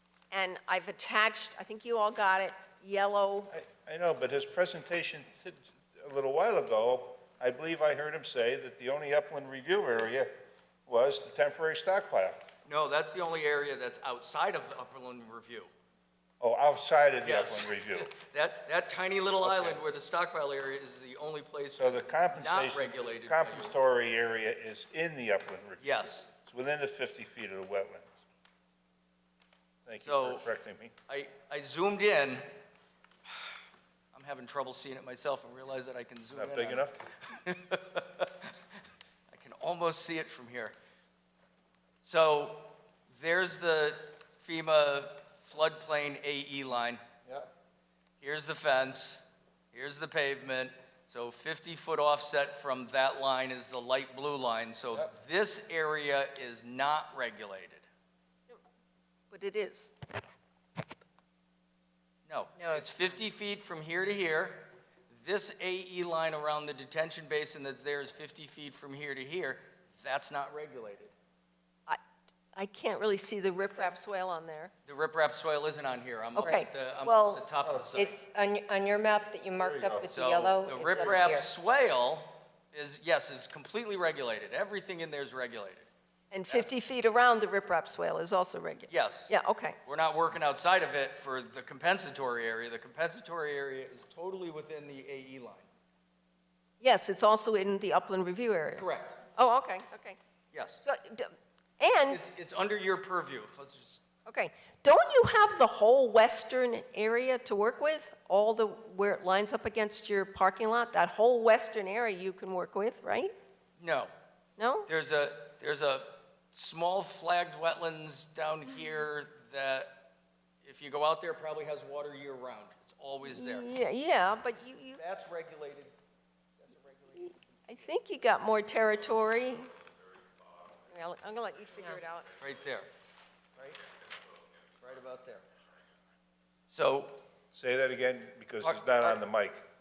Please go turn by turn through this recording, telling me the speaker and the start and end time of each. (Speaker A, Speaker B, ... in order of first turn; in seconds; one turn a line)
Speaker A: 0.3-3.5
Speaker B: 3.5-10.3
Speaker B: 10.9-12.5
Speaker C: 12.7-15.7
Speaker B: 16.4-18.1
Speaker C: 17.2-23.7
Speaker B: 19.4-19.8
Speaker B: 21.8-28.2
Speaker C: 25.8-26.3
Speaker B: 29.9-30.9
Speaker C: 30.0-30.5
Speaker C: 31.1-32.5
Speaker C: 34.1-38.5
Speaker B: 36.3-37.0
Speaker C: 39.3-40.8
Speaker C: 42.0-47.0
Speaker C: 48.2-57.9
Speaker A: 59.3-60.0
Speaker C: 62.3-71.1
Speaker D: 62.6-63.2
Speaker A: 72.5-74.7
Speaker C: 74.9-78.1
Speaker A: 76.4-77.5
Speaker D: 77.9-81.5
Speaker B: 79.6-80.1
Speaker C: 80.1-85.9
Speaker A: 86.3-89.8
Speaker C: 88.9-89.3
Speaker C: 89.8-95.7
Speaker A: 96.8-100.2
Speaker C: 98.8-99.2
Speaker C: 100.5-100.8
Speaker A: 100.8-102.2
Speaker C: 102.1-104.0
Speaker A: 104.3-113.3
Speaker C: 113.8-114.1
Speaker A: 114.6-114.9
Speaker C: 114.9-120.1
Speaker C: 120.6-123.7
Speaker A: 123.2-125.0
Speaker C: 125.0-126.0
Speaker C: 126.6-127.6
Speaker A: 127.7-129.7
Speaker A: 130.9-132.3
Speaker C: 132.4-132.9
Speaker C: 133.6-133.8
Speaker C: 134.8-135.4
Speaker C: 136.7-137.2
Speaker B: 137.5-139.7
Speaker C: 138.6-139.2